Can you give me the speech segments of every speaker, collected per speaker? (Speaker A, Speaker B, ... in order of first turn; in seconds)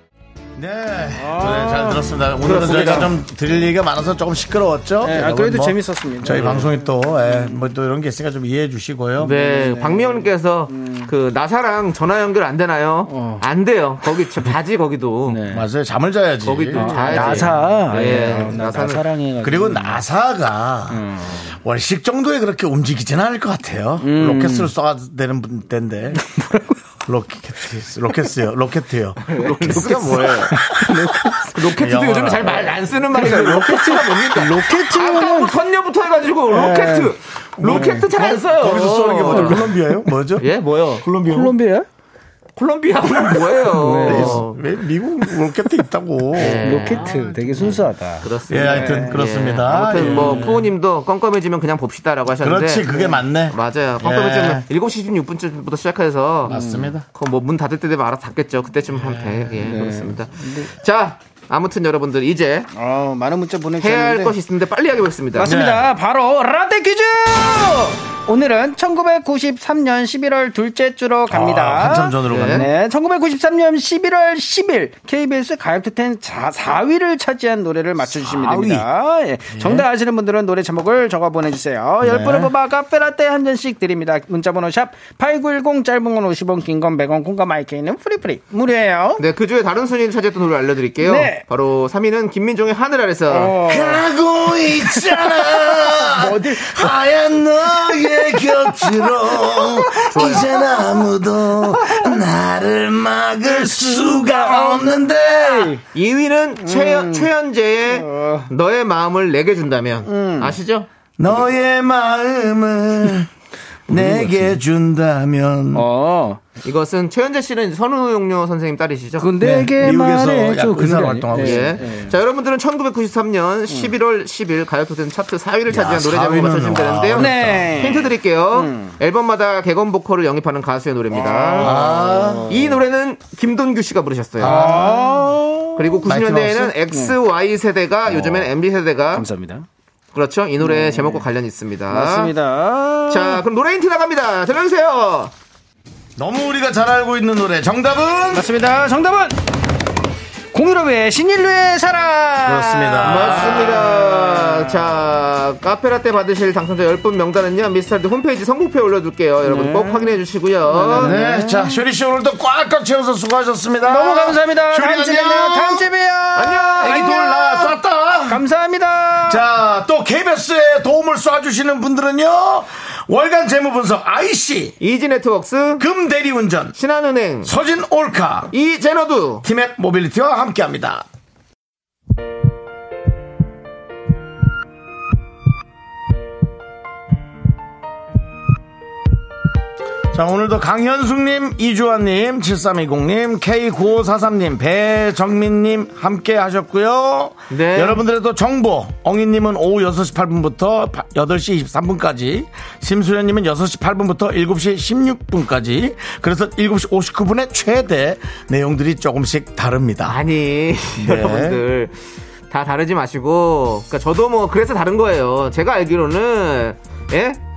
Speaker A: 0.6-9.3, 15.5-17.6, 19.4-26.2, 27.1-30.0, 31.6-33.5, 37.6-40.5, 41.0-41.5, 44.0-47.0, 48.5-50.7, 52.4-54.6, 56.5-57.0, 59.0-59.4, 65.4-65.9, 71.3-72.7, 78.2-78.9, 79.5-79.8, 82.0-82.5, 93.6-105.8, 111.2-113.3, 113.9-115.9, 119.4-121.8, 125.7-127.9, 131.6-132.5, 134.4-135.2, 136.1-136.7, 146.2-148.5, 152.4-154.0, 161.0-165.9, 166.9-168.4, 169.2-174.8, 175.8-176.8, 177.4-178.5, 179.4-181.1, 190.1-210.2, 211.0-211.6
Speaker B: 1.2-3.1, 5.0-7.6, 9.3-11.1, 13.1-13.4, 15.3-15.6, 16.7-20.0, 20.9-21.5, 24.0-24.7, 26.2-26.8, 29.3-31.6, 33.1-35.5, 36.5-38.0, 39.3-39.8, 41.2-41.9, 43.6-44.4, 46.5-49.2, 49.9-50.6, 52.9-53.2, 56.5-56.9, 59.6-60.7, 62.7-64.3, 65.3-89.2, 91.0-91.4, 93.3-94.0, 94.6-97.0, 98.0-100.8, 101.6-102.1, 103.6-105.8, 106.6-107.3, 107.9-108.5, 110.0-110.6, 113.9-114.6, 115.7-116.4, 119.2-122.1, 127.2-128.9, 131.1-132.8, 134.4-135.9, 138.1-138.5, 139.1-139.7, 140.6-141.2, 141.9-143.4, 148.3-149.4, 150.5-154.9, 159.4-161.8, 163.8-167.7, 168.3-169.4
Speaker C: 2.4-3.1, 9.2-15.4, 16.4-19.0, 29.3-30.7, 31.5-39.6, 40.4-41.0, 42.5-44.6, 46.3-62.7, 63.8-65.5, 72.3-72.7, 89.2-93.6, 100.1-100.5, 105.9-110.9, 116.6-119.3, 121.3-134.7, 135.8-139.3, 140.1-142.3, 143.1-145.3, 153.0-161.1, 166.3-167.7, 174.8-175.8, 176.8-177.5, 178.5-179.4, 197.5-198.0, 210.0-211.9, 212.5-217.4